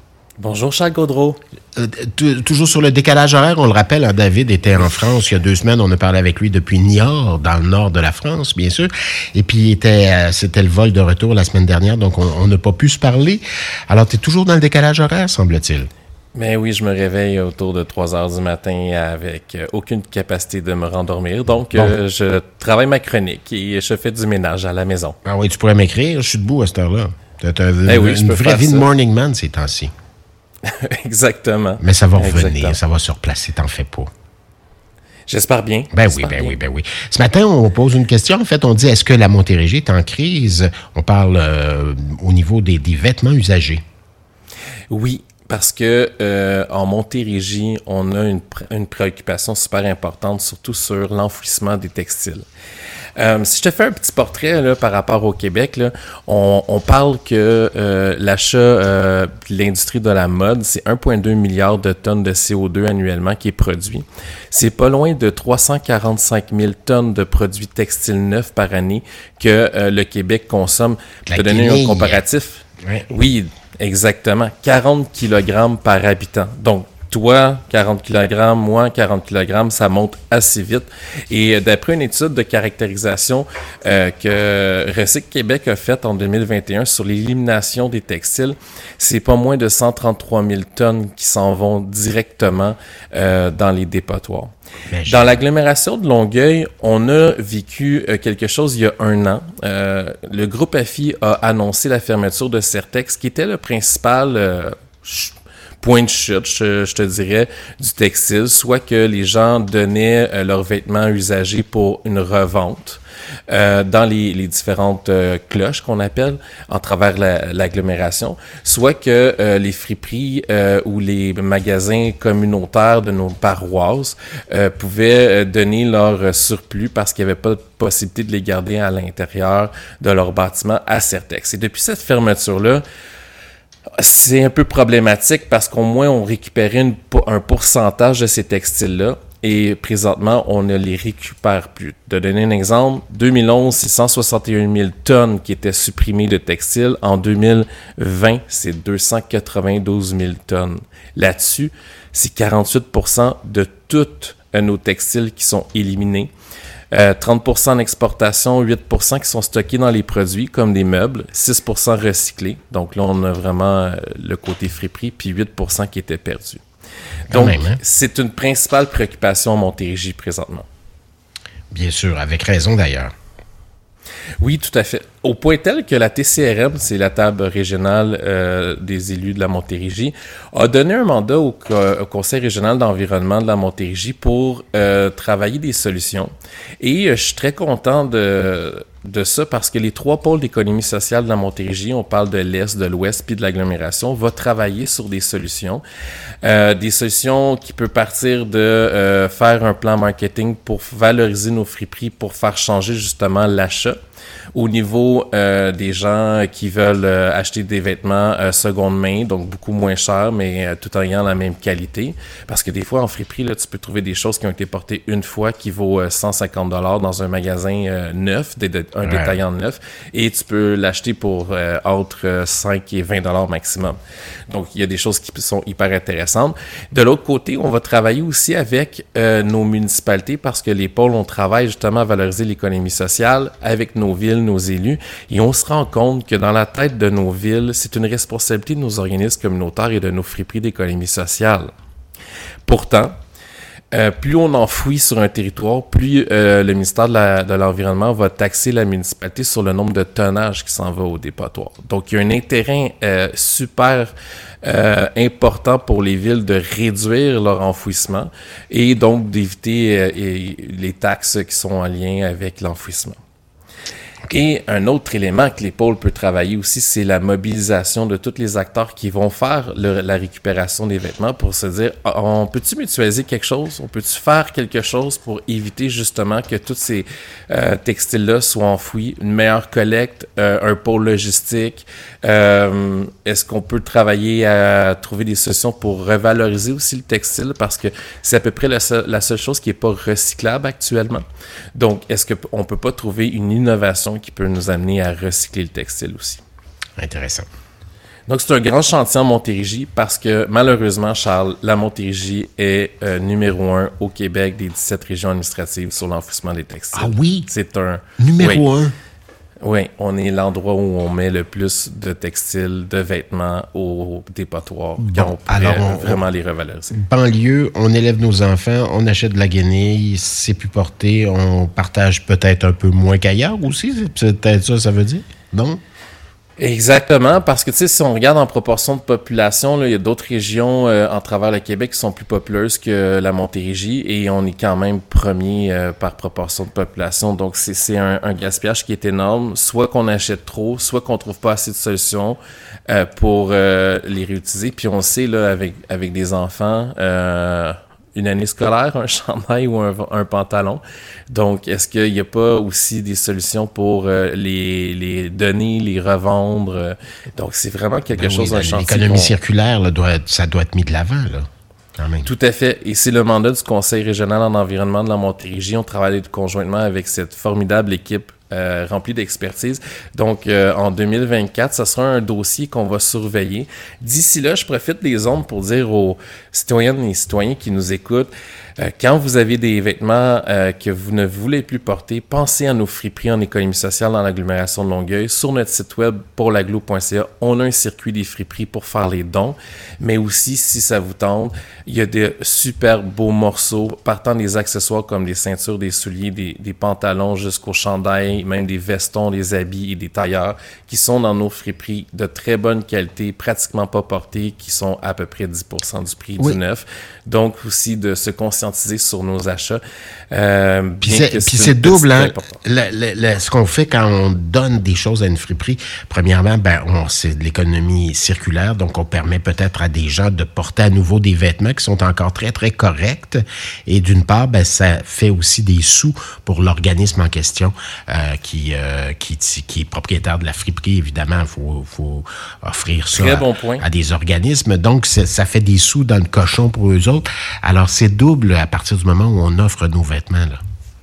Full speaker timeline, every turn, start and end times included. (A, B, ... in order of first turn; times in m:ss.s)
0:00.4-0:01.4 A
0:01.8-0:15.9 B
0:16.4-0:25.2 A
0:25.2-0:29.9 B
0:27.8-0:28.9 A
0:30.6-0:32.8 A
0:31.8-0:34.1 B
0:35.3-0:36.6 A
0:35.9-0:43.8 B
0:44.9-0:52.5 A
0:53.2-1:34.5 A
1:11.3-1:12.2 B
1:34.9-1:35.4 B
1:35.1-2:12.8 A
2:14.0-2:36.3 A
2:36.9-2:46.6 A
2:47.3-2:47.8 B
2:47.3-2:50.7 A
2:51.7-2:53.1 B
2:54.4-3:15.8 A
3:16.4-3:24.0 A
3:24.5-3:44.0 A
3:39.0-3:39.4 B
3:44.5-4:01.7 A
4:02.7-4:03.1 A
4:03.9-4:14.1 A
4:14.6-4:23.2 A
4:24.3-4:51.2 A
4:51.8-4:56.4 A
4:57.0-4:57.5 B
4:58.3-5:08.6 A
5:06.9-5:07.5 B
5:08.2-5:09.0 B
5:09.6-5:17.0 A
5:15.0-5:16.2 B
5:16.9-5:25.8 B
5:26.6-5:59.3 A
5:58.1-6:02.3 B
6:02.2-6:49.8 A
6:50.3-6:52.6 A
6:51.0-7:20.6 B
7:13.1-7:13.8 A